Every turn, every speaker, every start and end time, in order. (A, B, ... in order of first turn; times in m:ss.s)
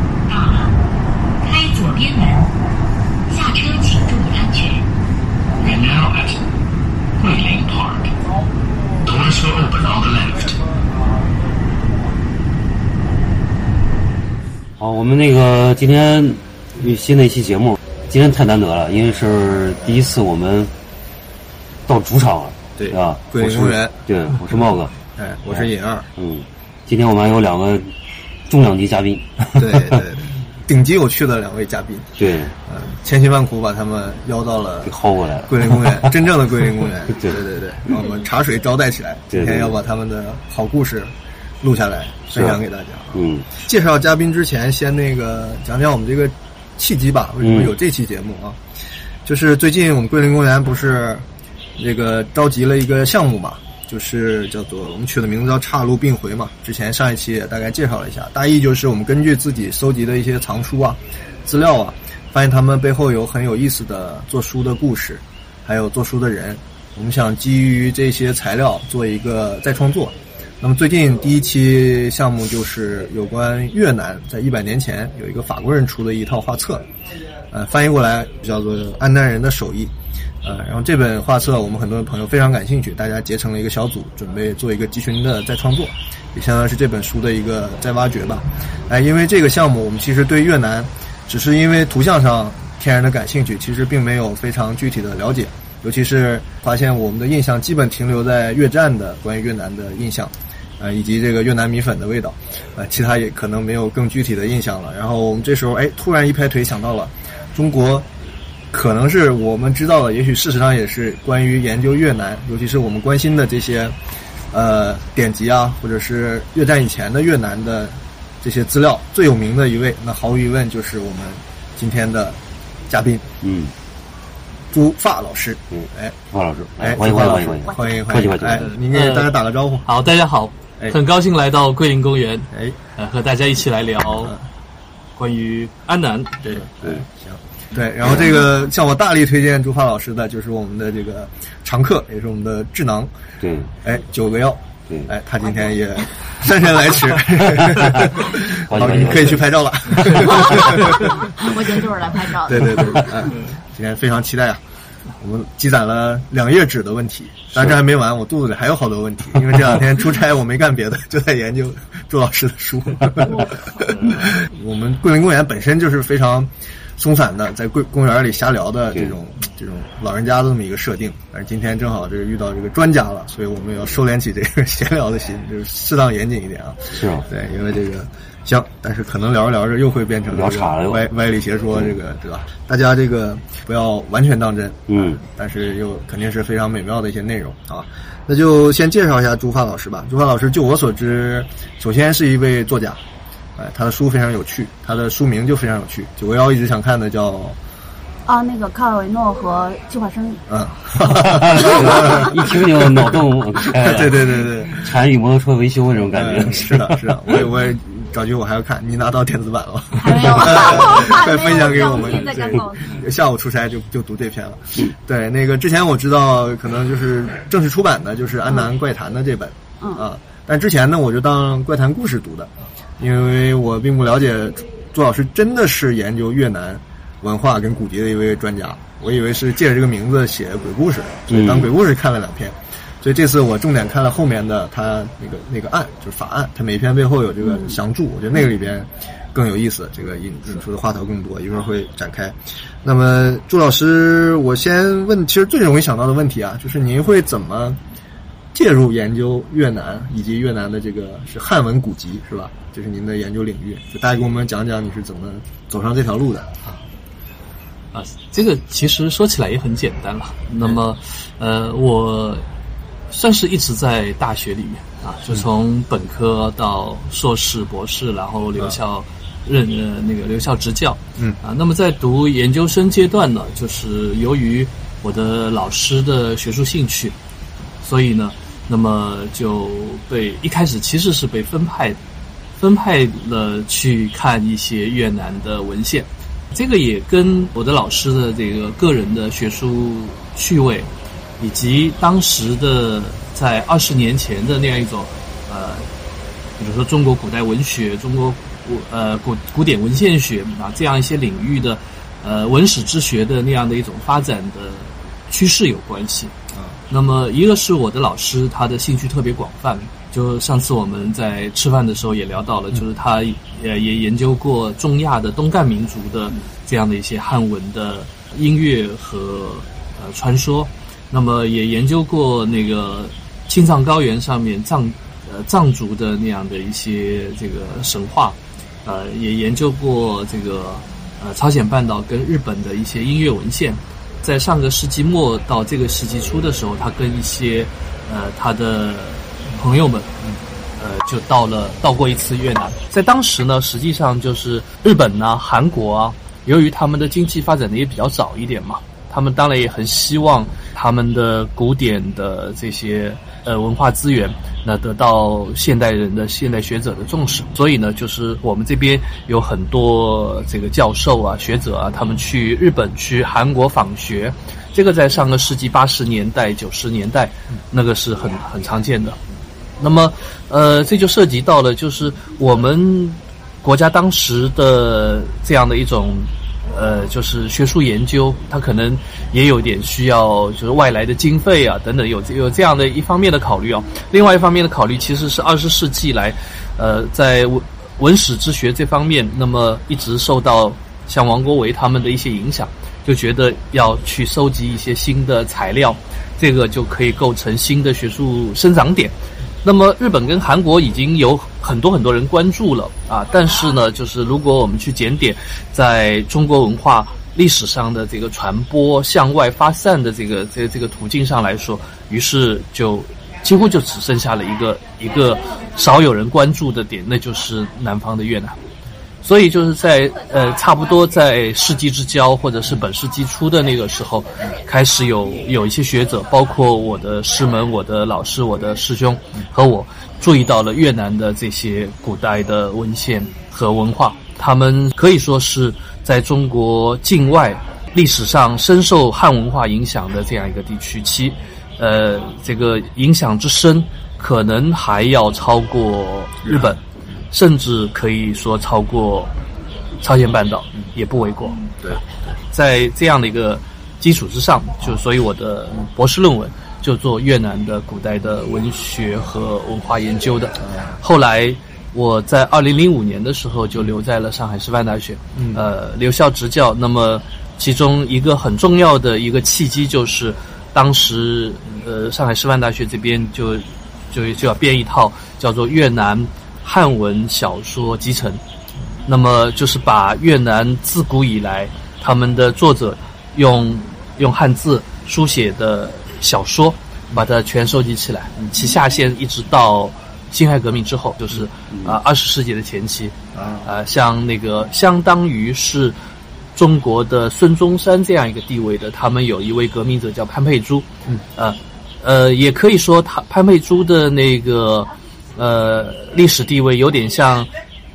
0:00.3-0:00.7 A
0:01.4-0:02.5 A
0:03.3-0:04.8 A
0:05.6-0:06.4 B
0:07.2-0:08.1 B
0:09.0-0:10.6 B
0:14.8-0:20.7 C
0:21.9-0:24.9 C
0:22.8-0:26.1 D
0:25.5-0:27.9 C
0:28.5-0:30.0 C
0:29.5-0:48.6 D
0:32.2-0:32.5 C
0:34.8-0:36.1 C
0:37.1-0:37.4 C
0:39.3-0:39.7 C
0:42.3-0:42.6 C
0:43.1-0:43.4 C
0:47.4-0:47.7 C
0:49.2-0:51.2 D
0:51.8-1:16.9 D
1:17.5-1:48.1 D
1:48.7-1:54.0 D
1:54.5-2:03.3 D
2:03.4-2:03.7 C
2:04.7-2:06.2 D
2:05.7-2:08.6 C
2:06.8-2:09.9 D
2:08.9-2:14.3 E
2:15.2-2:16.4 E
2:16.4-2:23.1 D
2:23.4-2:23.7 C
2:23.8-2:31.4 D
2:27.6-2:31.0 C
2:31.1-2:33.2 F
2:32.4-2:34.6 D
2:35.2-3:13.0 D
2:56.9-2:57.2 C
3:00.3-3:01.1 C
3:04.9-3:05.2 C
3:13.6-3:17.6 D
3:18.2-3:20.4 F
3:20.5-3:24.9 D
3:21.4-3:27.4 C
3:21.5-3:22.2 F
3:26.1-4:07.8 D
3:30.0-3:33.0 F
3:51.3-3:51.7 C
3:57.4-3:57.7 F
4:08.5-4:16.8 D
4:17.9-4:22.4 E
4:23.1-4:37.2 E
4:37.8-4:42.0 E
4:42.6-4:55.9 E
4:56.6-5:06.3 E
5:06.9-5:40.1 E
5:40.8-6:09.2 E
6:09.8-6:58.6 E
6:59.2-7:26.8 E
7:26.4-7:26.7 D
7:27.3-7:29.3 E
7:30.0-7:58.4 E
7:40.6-7:41.0 D
7:45.3-7:45.6 D
7:59.0-8:15.9 E
8:13.3-8:13.7 D
8:16.5-8:27.5 E